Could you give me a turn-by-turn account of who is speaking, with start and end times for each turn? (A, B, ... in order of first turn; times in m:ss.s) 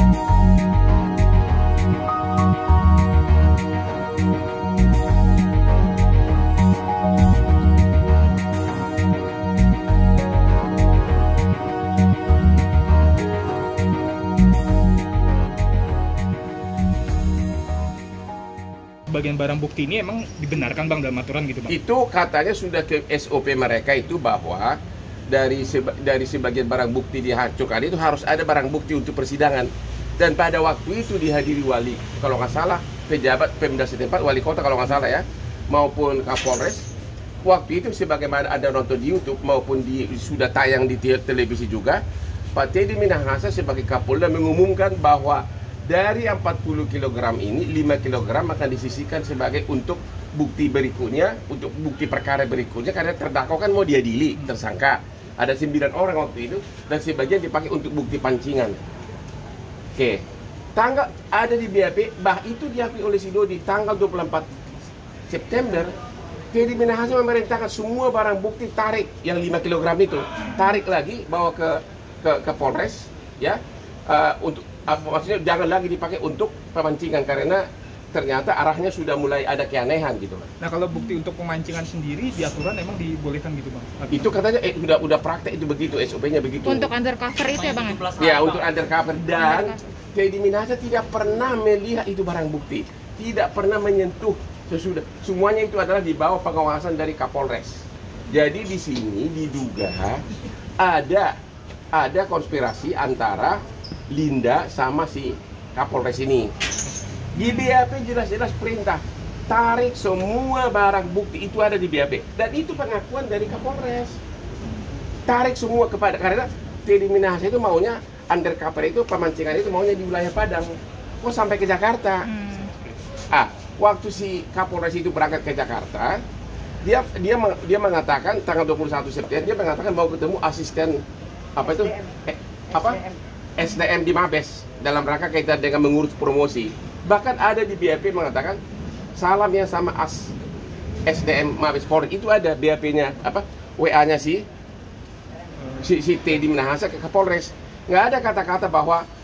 0:19.1-0:21.6 A
0:21.7-0:24.8 B
0:25.3-0:36.9 B
0:37.4-0:42.0 B
0:42.5-0:58.8 B
1:00.0-1:00.2 B
1:00.8-1:04.5 B
1:05.3-1:05.9 B
1:06.5-1:20.5 B
1:20.6-1:23.9 A
1:24.1-1:26.9 B
1:26.6-1:28.4 C
1:28.1-1:40.2 B
1:29.4-1:29.8 C
1:40.8-1:41.3 B
1:41.9-1:46.5 B
1:47.4-1:54.2 B
1:55.3-2:02.3 B
2:02.3-2:02.7 C
2:03.3-2:06.2 B
2:06.8-2:11.0 B
2:11.6-2:18.6 B
2:19.2-2:20.3 B
2:21.0-2:24.4 B
2:25.8-2:29.0 B